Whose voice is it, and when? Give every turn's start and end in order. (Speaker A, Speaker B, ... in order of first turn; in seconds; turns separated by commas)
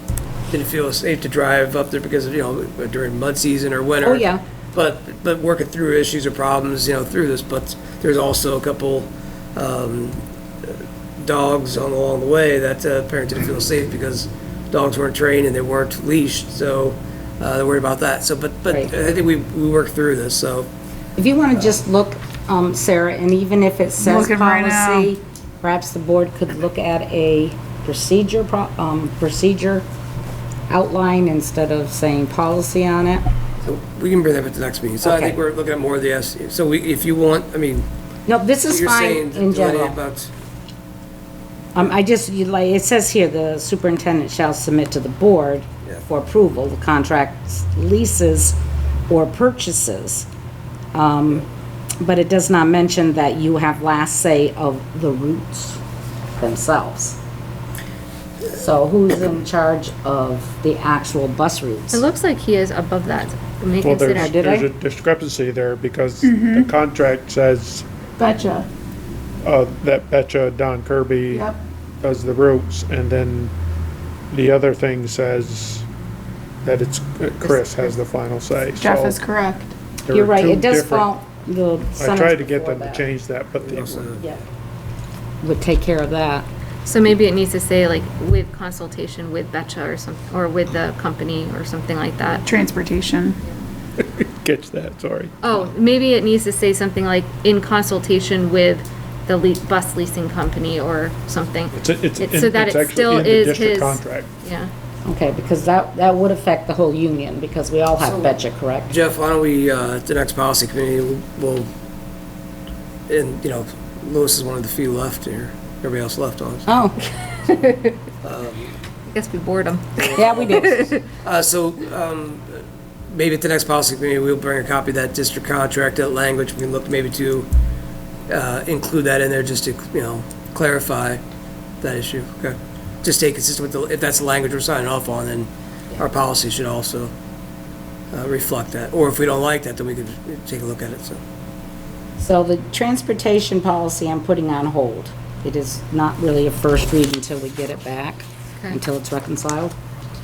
Speaker A: 0.5-20.7, Speaker B: 4.0-4.4, Speaker B: 21.2-29.8, Speaker C: 24.0-25.1, Speaker B: 30.7-33.2, Speaker A: 33.6-37.9, Speaker B: 35.0-35.3, Speaker B: 38.3-40.0, Speaker A: 38.7-40.3, Speaker B: 41.7-48.6, Speaker B: 49.1-50.3, Speaker B: 50.9-51.5, Speaker B: 52.0-55.8, Speaker B: 56.4-57.2, Speaker B: 58.5-62.0, Speaker D: 61.9-64.5, Speaker E: 63.8-67.9, Speaker B: 64.2-64.7, Speaker C: 66.2-66.7, Speaker C: 68.2-68.7, Speaker E: 69.4-71.5, Speaker C: 71.3-71.6, Speaker E: 72.0-73.5, Speaker E: 74.3-75.8, Speaker E: 76.6-79.2, Speaker C: 78.8-79.7, Speaker E: 80.0-81.1, Speaker B: 80.1-83.0, Speaker E: 82.0-84.1, Speaker A: 83.6-84.4, Speaker B: 85.4-86.5, Speaker D: 86.8-92.4, Speaker C: 92.4-93.4, Speaker E: 94.0-95.7, Speaker D: 95.4-104.7, Speaker E: 101.7-104.3, Speaker B: 105.0-108.9, Speaker A: 108.0-108.3, Speaker A: 108.8-111.7, Speaker A: 113.1-116.7, Speaker B: 116.7-117.0, Speaker D: 117.5-118.0, Speaker A: 118.2-118.7, Speaker D: 119.1-121.0, Speaker A: 120.0-127.5, Speaker B: 120.1-120.9, Speaker A: 128.3-131.2, Speaker A: 131.8-137.1, Speaker A: 138.1-141.2, Speaker B: 142.2-149.7